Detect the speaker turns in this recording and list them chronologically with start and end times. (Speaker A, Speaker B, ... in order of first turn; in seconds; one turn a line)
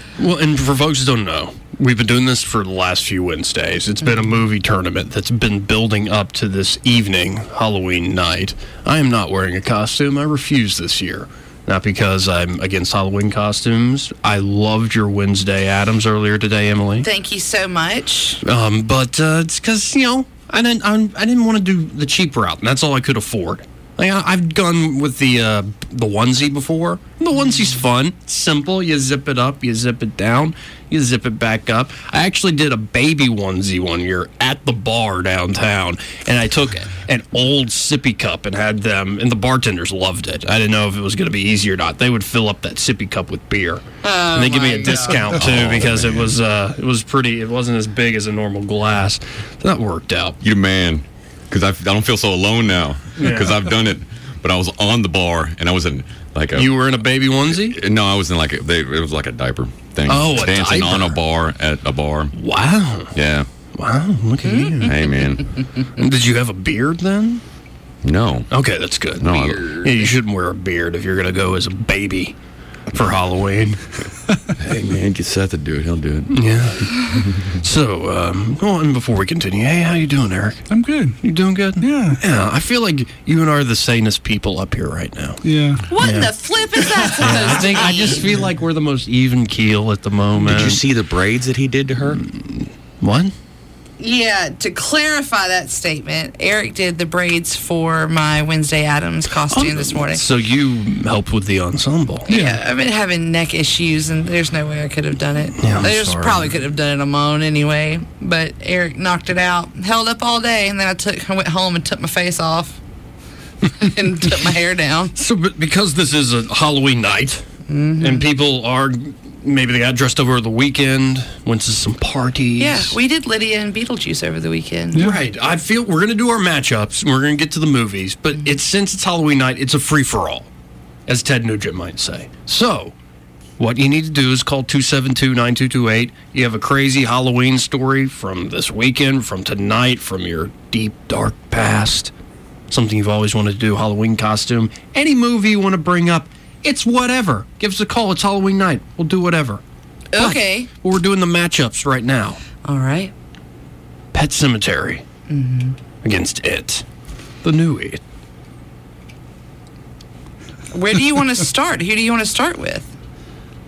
Speaker A: 0.2-17.1
Speaker B: 17.0-18.4
Speaker A: 18.4-50.4
Speaker B: 44.0-45.3
Speaker C: 45.3-46.4
Speaker C: 50.4-56.9
Speaker A: 53.2-53.6
Speaker A: 56.5-57.8
Speaker C: 57.5-62.4
Speaker A: 60.1-61.2
Speaker A: 62.4-63.1
Speaker C: 63.1-63.5
Speaker A: 63.8-65.0
Speaker C: 64.8-65.5
Speaker A: 66.0-67.4
Speaker C: 68.0-68.5
Speaker A: 68.5-72.4
Speaker C: 69.2-70.2
Speaker A: 72.9-73.8
Speaker C: 74.6-76.5
Speaker A: 76.3-80.7
Speaker D: 80.7-81.2
Speaker A: 81.2-85.4
Speaker D: 81.8-82.2
Speaker D: 85.4-85.8
Speaker B: 85.9-88.2
Speaker A: 86.0-86.3
Speaker A: 87.1-90.8
Speaker C: 90.4-92.2
Speaker A: 92.1-93.3
Speaker B: 94.0-100.2
Speaker A: 99.5-102.3
Speaker B: 102.3-112.8
Speaker D: 102.3-102.6
Speaker A: 105.6-106.5
Speaker B: 113.7-115.1
Speaker A: 115.2-117.4
Speaker B: 117.7-118.3
Speaker A: 118.0-123.0
Speaker B: 122.6-125.1
Speaker D: 124.9-125.2
Speaker A: 125.0-130.5
Speaker A: 131.1-132.9
Speaker A: 133.6-142.1
Speaker A: 142.7-149.6
Speaker B: 150.1-150.7
Speaker A: 150.2-152.4
Speaker B: 152.6-153.1
Speaker A: 154.1-155.0
Speaker B: 155.3-155.8
Speaker A: 156.0-156.8
Speaker A: 157.4-158.0
Speaker B: 160.7-162.9